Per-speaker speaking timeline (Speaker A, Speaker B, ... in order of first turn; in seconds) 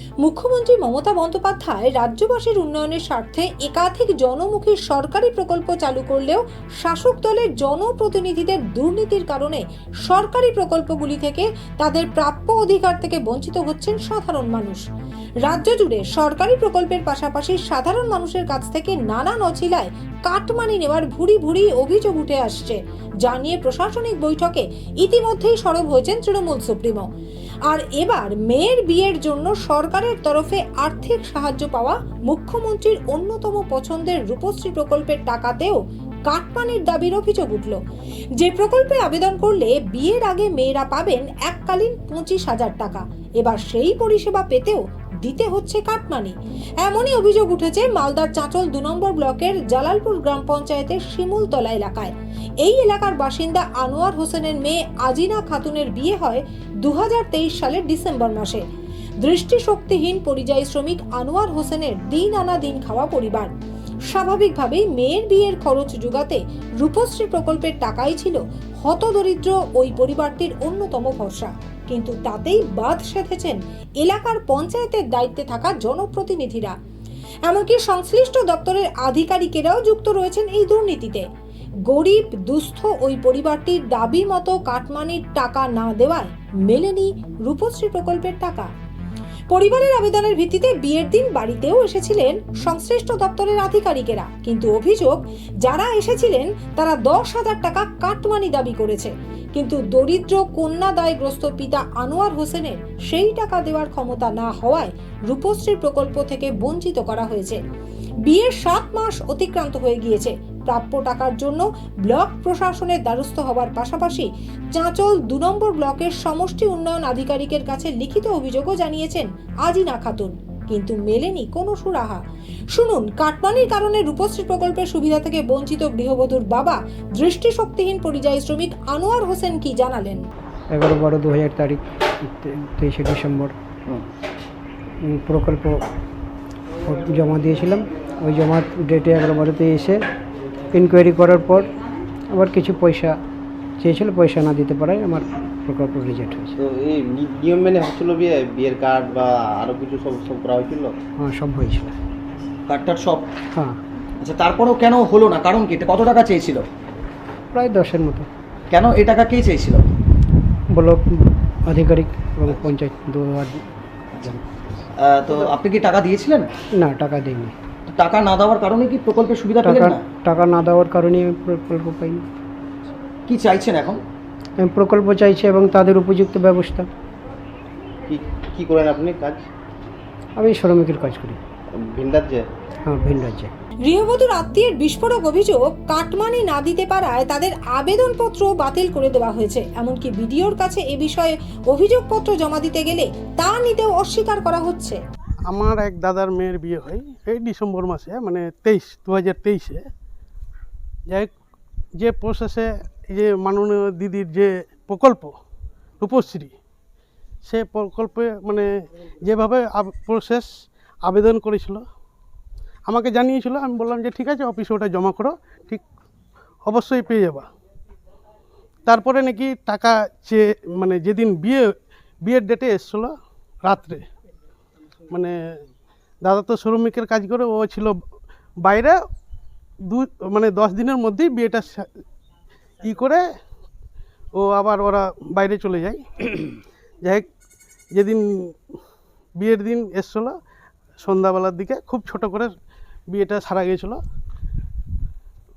Speaker A: 0.2-14.8, 15.4-27.1, 27.7-37.8, 38.4-58.6, 59.2-63.5, 64.1-76.8, 77.5-81.3, 81.9-88.7, 89.5-107.6, 108.3-130.2, 183.8-195.0
Speaker B: 130.7-133.6, 135.0-135.8, 136.8-140.0, 140.7-141.7, 142.3-143.2, 143.8-146.6, 151.2-152.0, 157.5-158.3, 160.8-163.7, 166.7-167.6, 169.6-172.3, 174.6-176.9, 180.4-181.4, 182.9-183.5
Speaker C: 146.6-151.0, 178.1-179.5, 181.7-182.5
Speaker D: 152.7-153.3, 154.2-156.6, 158.7-159.9, 165.0-166.5, 167.9-170.0, 173.3-174.0
Speaker E: 195.5-199.8, 202.0-205.3, 206.0-206.5, 207.4-208.7, 209.2-210.5, 211.0-211.8, 212.9-215.8, 216.7-217.4, 218.9-221.7, 222.2-224.0, 225.1-225.4, 226.2-228.0, 228.6-229.0, 229.9-231.9, 232.8-233.2, 234.4-236.1, 237.9-238.6, 239.4-240.3, 241.0-242.5, 243.1-244.0